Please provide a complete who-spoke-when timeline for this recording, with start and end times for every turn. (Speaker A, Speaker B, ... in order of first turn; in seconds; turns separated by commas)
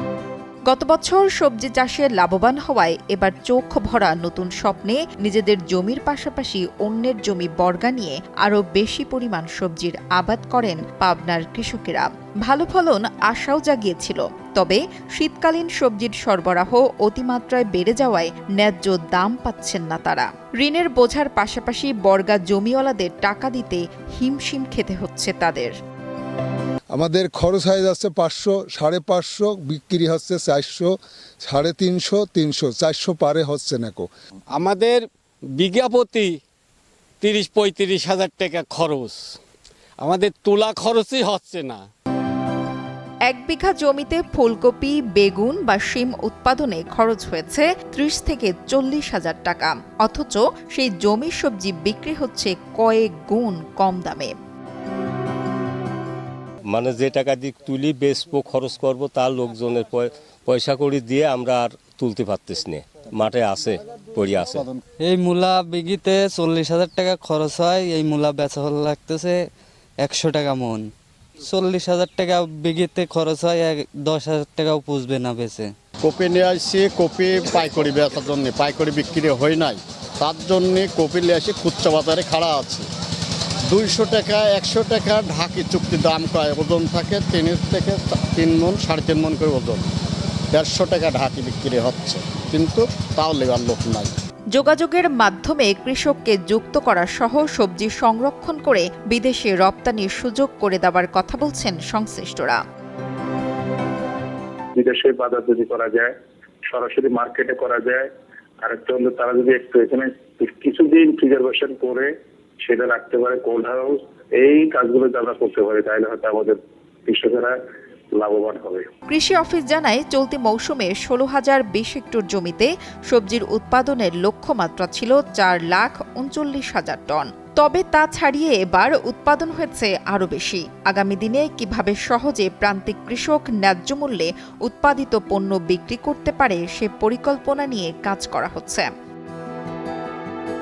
Speaker A: 0.7-25.7, Speaker B: 26.9-34.1, Speaker C: 34.6-35.0, Speaker C: 35.6-36.3, Speaker C: 37.2-39.1, Speaker C: 40.0-41.8, Speaker A: 43.3-54.3, Speaker D: 56.7-64.7, Speaker E: 65.0-69.4, Speaker E: 70.0-70.9, Speaker E: 71.4-75.7, Speaker F: 76.0-82.9, Speaker F: 83.7-89.9, Speaker F: 90.5-94.1, Speaker A: 94.5-102.6, Speaker G: 104.8-106.1, Speaker G: 106.7-108.1, Speaker G: 108.6-112.1, Speaker G: 112.6-117.6, Speaker G: 118.2-118.9, Speaker A: 119.1-138.9